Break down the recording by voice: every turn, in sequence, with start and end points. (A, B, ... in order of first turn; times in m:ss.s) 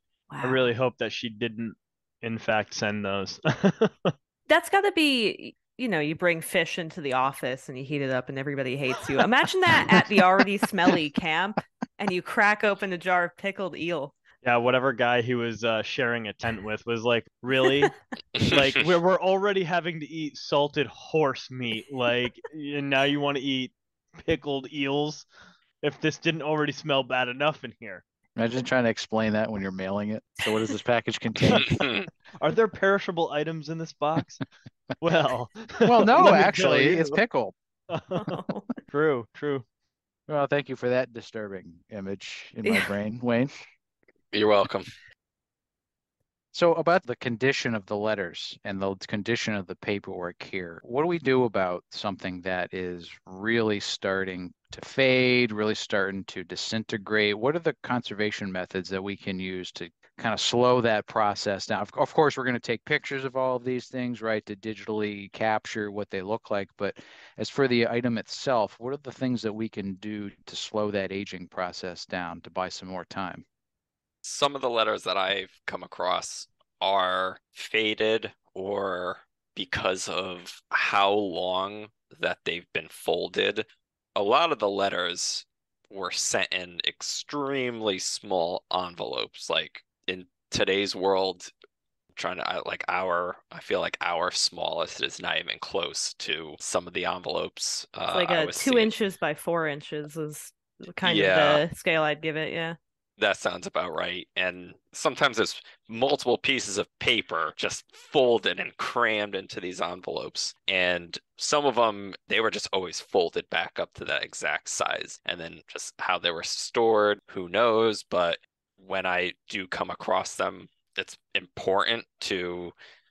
0:00.3-0:00.7 A
0:00.4-0:04.1 B
0:04.5-0:14.2 A
0:14.4-0:25.3 B
0:25.8-0:28.0 B
0:28.4-0:31.8 C
0:31.6-0:32.1 D
0:32.4-0:34.4 B
0:35.0-0:37.2 B
0:35.8-0:37.5 C
0:37.9-0:38.3 B
0:38.2-0:38.7 A
0:38.9-0:39.6 B
0:40.3-0:43.5 C
0:42.6-0:42.9 A
0:44.3-0:44.9 D
0:46.5-1:13.4 C
1:14.2-1:31.5 D
1:32.2-1:38.9 D
1:38.1-1:42.8 A
1:41.0-1:41.6 D
1:43.2-2:02.7 D